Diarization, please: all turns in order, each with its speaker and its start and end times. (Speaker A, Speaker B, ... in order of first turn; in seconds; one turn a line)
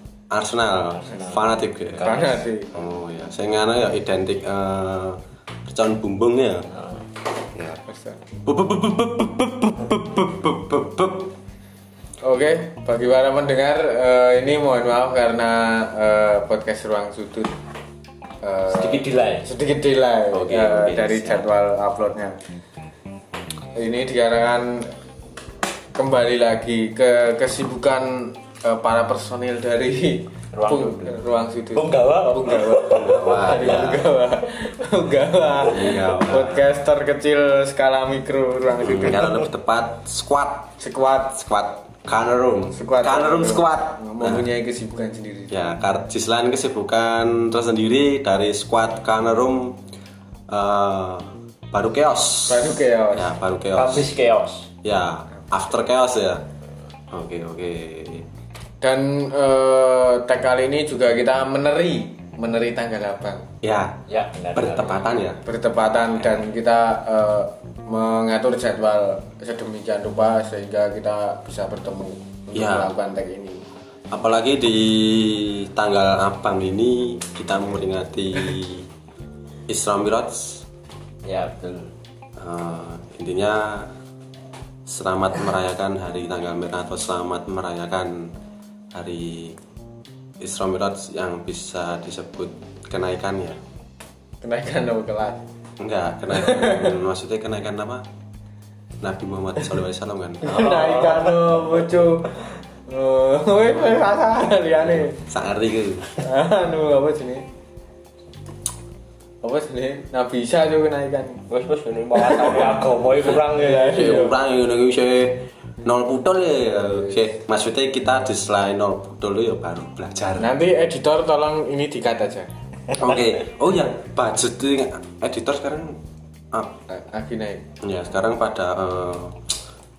Speaker A: 0.3-2.2
Speaker B: 0.9-2.4
Speaker C: 2.0-2.7
Speaker A: 2.7-6.7
Speaker B: 6.7-7.0
Speaker A: 7.5-7.8
Speaker C: 7.8-8.2
Speaker A: 8.4-11.3
Speaker C: 12.2-17.5
Speaker C: 18.4-22.4
Speaker B: 18.7-19.5
Speaker A: 20.3-21.5
Speaker C: 23.7-24.9
Speaker C: 25.9-39.5
Speaker B: 30.5-31.2
Speaker B: 31.7-33.3
Speaker A: 32.9-34.1
Speaker A: 35.6-36.6
Speaker A: 38.8-40.7
Speaker C: 40.8-41.4
Speaker A: 41.3-44.5
Speaker C: 42.7-45.6
Speaker A: 45.5-49.8
Speaker A: 50.5-54.1
Speaker C: 52.5-53.3
Speaker B: 53.7-54.7
Speaker A: 54.8-56.4
Speaker A: 57.1-58.3
Speaker C: 58.8-63.5
Speaker A: 63.6-64.0
Speaker B: 64.1-65.1
Speaker A: 64.5-65.4
Speaker C: 65.4-73.7
Speaker A: 72.5-72.9
Speaker A: 74.1-78.9
Speaker A: 79.7-80.6
Speaker B: 81.2-81.9
Speaker A: 82.4-83.9
Speaker A: 84.8-88.3
Speaker A: 88.9-89.6
Speaker A: 90.4-93.6
Speaker C: 94.4-95.4
Speaker A: 95.8-98.0
Speaker C: 96.3-97.0
Speaker A: 99.0-100.8
Speaker C: 100.4-102.3
Speaker B: 100.5-101.8
Speaker C: 102.9-105.2
Speaker A: 104.9-106.1
Speaker C: 106.2-107.4
Speaker C: 109.4-111.4
Speaker B: 111.5-114.3
Speaker C: 112.1-114.3
Speaker A: 113.9-120.5
Speaker C: 120.4-122.5
Speaker A: 123.0-126.0
Speaker C: 126.9-127.7
Speaker A: 127.8-129.4